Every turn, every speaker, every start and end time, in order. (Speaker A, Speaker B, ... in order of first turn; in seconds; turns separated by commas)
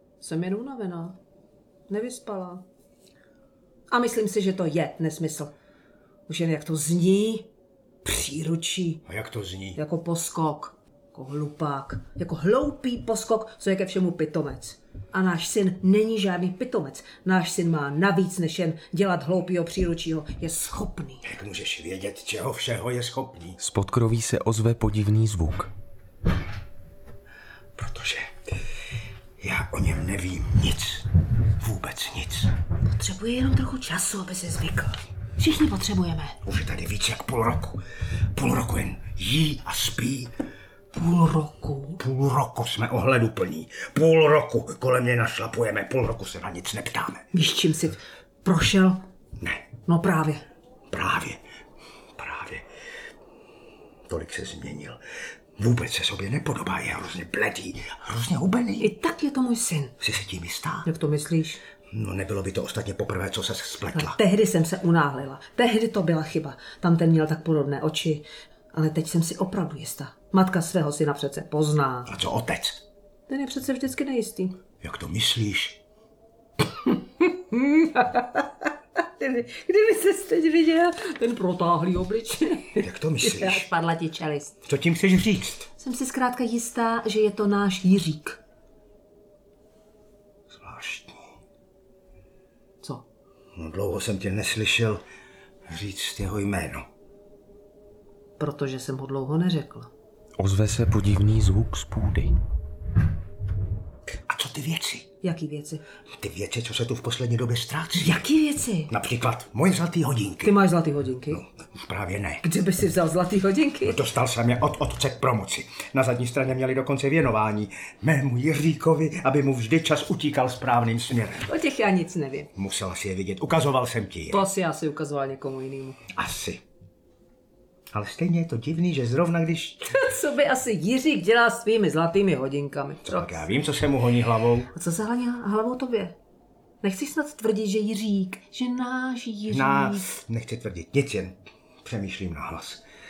Speaker A: 0.2-1.2, Speaker A: 1.9-2.6, Speaker A: 3.9-5.5, Speaker A: 6.3-7.5, Speaker A: 8.0-9.0, Speaker B: 9.1-9.8, Speaker A: 9.8-21.2, Speaker B: 21.2-23.6, Speaker C: 23.6-25.7, Speaker B: 27.8-28.3, Speaker B: 29.4-32.5, Speaker A: 32.8-36.4, Speaker B: 36.4-37.8, Speaker B: 38.3-40.3, Speaker A: 40.9-42.0, Speaker B: 42.0-47.3, Speaker A: 47.3-49.0, Speaker B: 49.4-49.6, Speaker A: 49.9-50.4, Speaker B: 50.9-51.4, Speaker B: 52.2-52.7, Speaker B: 54.1-55.0, Speaker B: 55.6-58.9, Speaker A: 58.8-59.9, Speaker B: 60.0-60.9, Speaker A: 60.8-61.6, Speaker B: 61.9-64.2, Speaker A: 63.9-72.1, Speaker B: 72.0-72.8, Speaker A: 73.3-74.6, Speaker B: 74.8-75.8, Speaker A: 77.2-84.5, Speaker B: 82.8-83.7, Speaker B: 84.6-85.7, Speaker A: 85.8-88.4, Speaker B: 90.5-91.3, Speaker B: 93.5-95.0, Speaker B: 95.7-96.9, Speaker A: 98.4-99.9, Speaker C: 100.4-102.3, Speaker B: 104.1-105.1, Speaker A: 105.2-105.8, Speaker B: 106.2-108.2, Speaker A: 108.0-108.9, Speaker B: 108.9-110.6, Speaker A: 110.4-111.4, Speaker B: 111.3-112.4, Speaker A: 112.4-114.0, Speaker B: 113.8-121.5, Speaker A: 121.4-122.5, Speaker B: 122.5-124.5, Speaker A: 124.3-126.0, Speaker B: 126.1-126.6, Speaker B: 127.9-130.0, Speaker A: 129.9-133.5, Speaker B: 133.0-134.7, Speaker A: 134.7-136.2, Speaker A: 136.8-140.1, Speaker B: 139.5-142.8